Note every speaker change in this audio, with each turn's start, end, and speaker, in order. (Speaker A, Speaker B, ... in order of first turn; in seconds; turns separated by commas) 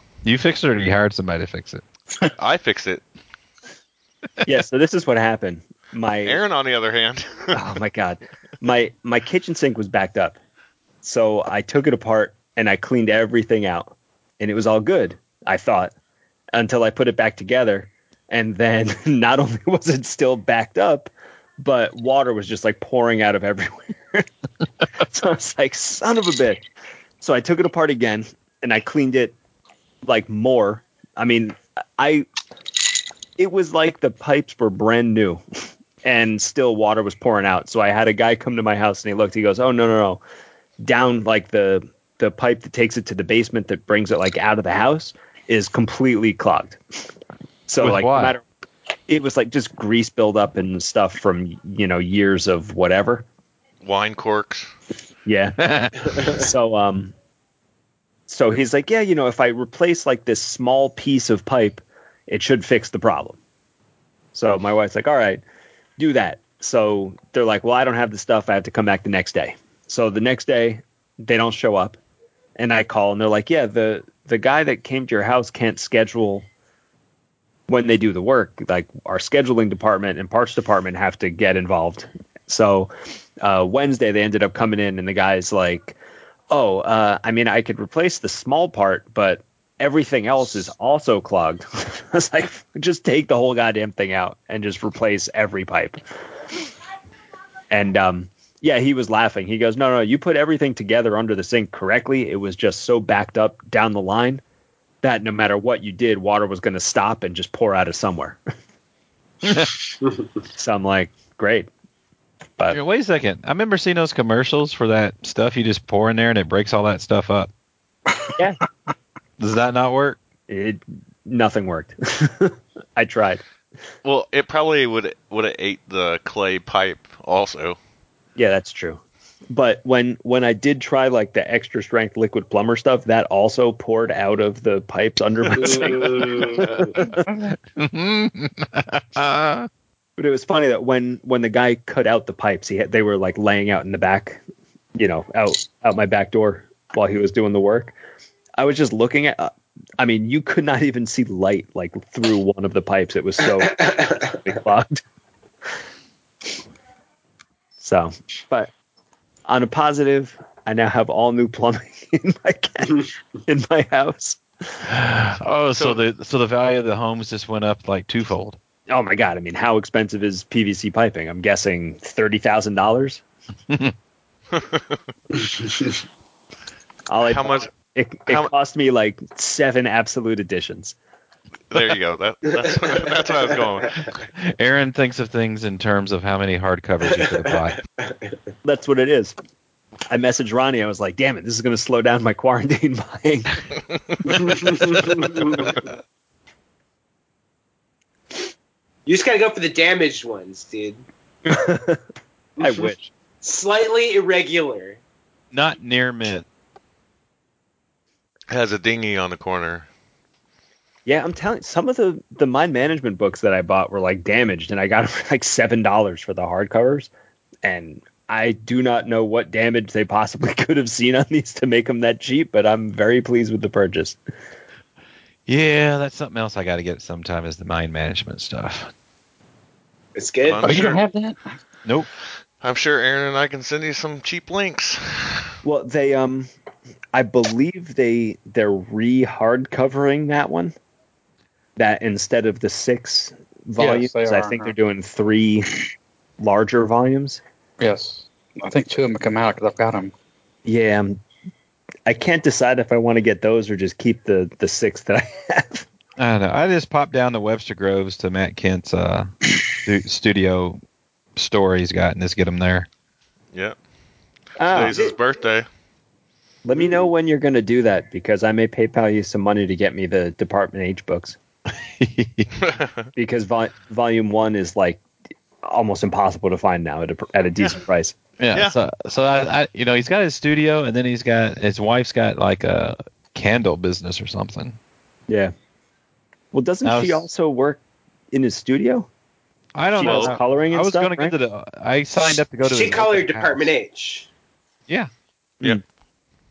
Speaker A: 0.2-1.8, Speaker B: 2.4-3.0, Speaker C: 4.4-6.4, Speaker B: 6.2-7.6, Speaker C: 7.5-10.4, Speaker C: 11.0-15.9, Speaker C: 16.5-24.3, Speaker C: 25.0-26.6, Speaker C: 27.2-29.3, Speaker C: 30.0-32.3, Speaker C: 33.4-35.4, Speaker C: 36.0-40.2, Speaker C: 40.8-46.8, Speaker C: 47.7-48.4, Speaker A: 47.8-48.4, Speaker C: 49.1-53.2, Speaker B: 53.8-54.7, Speaker C: 55.2-55.6, Speaker A: 55.6-56.1, Speaker C: 56.2-57.1, Speaker C: 58.3-63.4, Speaker C: 64.3-65.4, Speaker C: 66.0-72.0, Speaker C: 72.6-76.5, Speaker C: 77.7-86.0, Speaker C: 86.5-96.0, Speaker C: 97.7-104.4, Speaker C: 105.0-108.4, Speaker A: 109.4-109.7, Speaker C: 110.5-111.7, Speaker A: 112.7-117.5, Speaker A: 119.4-120.2, Speaker C: 120.5-123.4, Speaker B: 124.0-127.8, Speaker C: 128.3-136.8, Speaker D: 135.7-136.7, Speaker A: 136.6-139.7, Speaker C: 140.2-144.4, Speaker C: 144.9-147.9, Speaker C: 148.6-155.0, Speaker D: 153.8-154.3, Speaker C: 157.8-158.7, Speaker C: 159.5-164.4, Speaker A: 164.8-168.6, Speaker C: 168.9-173.2, Speaker B: 174.5-175.0, Speaker C: 177.1-180.9, Speaker B: 177.2-177.7, Speaker B: 181.7-184.1, Speaker A: 184.3-187.8, Speaker C: 188.6-189.3, Speaker C: 190.1-193.6, Speaker D: 194.2-195.7, Speaker C: 195.2-195.6, Speaker D: 199.1-201.0, Speaker C: 201.4-202.0, Speaker D: 202.6-202.9, Speaker C: 202.6-203.1, Speaker D: 203.4-205.0, Speaker A: 205.5-206.5, Speaker B: 208.5-209.9, Speaker C: 211.1-217.1, Speaker C: 217.6-224.2, Speaker A: 225.5-228.9, Speaker D: 230.1-231.0, Speaker B: 230.4-231.0, Speaker E: 230.6-231.6, Speaker B: 232.6-235.5, Speaker C: 235.6-236.5, Speaker C: 237.1-240.7, Speaker C: 241.8-245.7, Speaker E: 243.8-244.7, Speaker C: 246.4-247.4, Speaker E: 247.8-250.1, Speaker C: 250.6-251.2, Speaker C: 252.1-255.8, Speaker A: 256.2-259.3, Speaker A: 259.8-260.8, Speaker A: 261.4-262.9, Speaker C: 264.6-265.1, Speaker B: 264.7-265.7, Speaker C: 266.6-271.4, Speaker A: 272.0-272.5, Speaker B: 272.6-273.1, Speaker C: 273.1-275.0, Speaker C: 275.6-278.1, Speaker A: 278.4-284.8, Speaker C: 286.5-287.8, Speaker A: 286.8-287.2, Speaker C: 288.3-289.1, Speaker A: 289.7-293.7, Speaker C: 290.0-291.4, Speaker B: 290.0-290.3, Speaker D: 292.6-294.3